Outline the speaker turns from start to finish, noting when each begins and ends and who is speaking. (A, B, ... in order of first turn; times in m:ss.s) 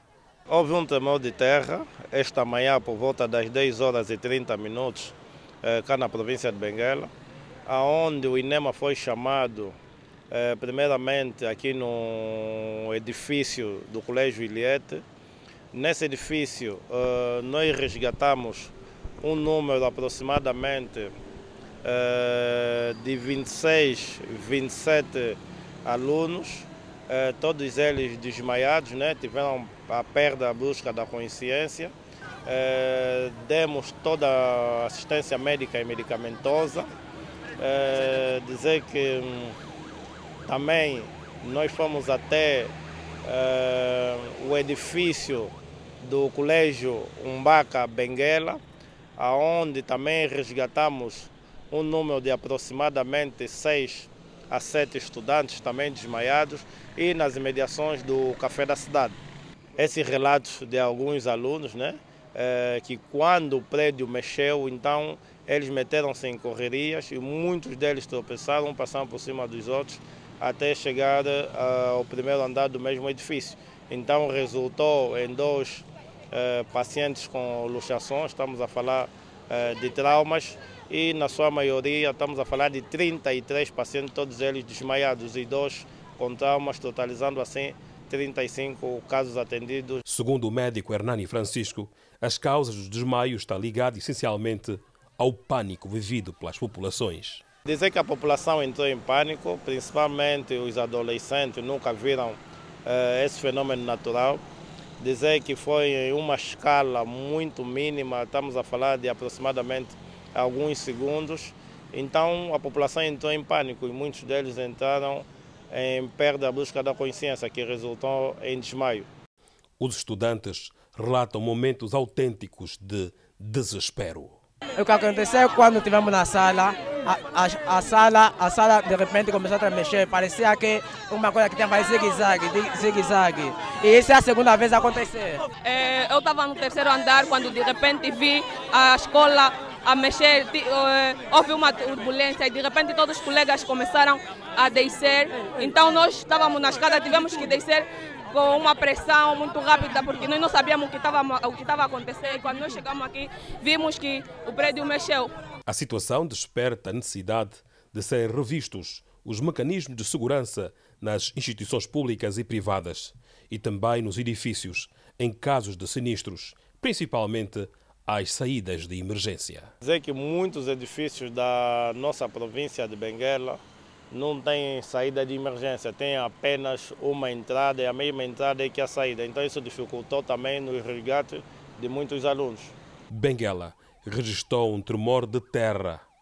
0:00.5-0:07.1 A
0:07.7-0:09.8 A
0:10.3-0:15.0 A
0:15.7-0:21.1 A
0:21.8-0:31.9 A
0:32.5-0:36.9 A
0:37.6-0:39.6 A
0:40.5-0:48.6 A
0:49.2-0:59.2 A
0:59.8-1:30.0 A
1:30.1-1:37.4 B
1:37.7-1:44.4 A
1:45.0-1:59.1 A
1:59.8-2:04.4 B
2:04.8-2:15.4 C
2:15.6-2:35.3 D
2:35.7-2:49.7 B
2:49.8-2:53.6 A
2:54.1-3:02.8 A
3:03.1-3:06.0 B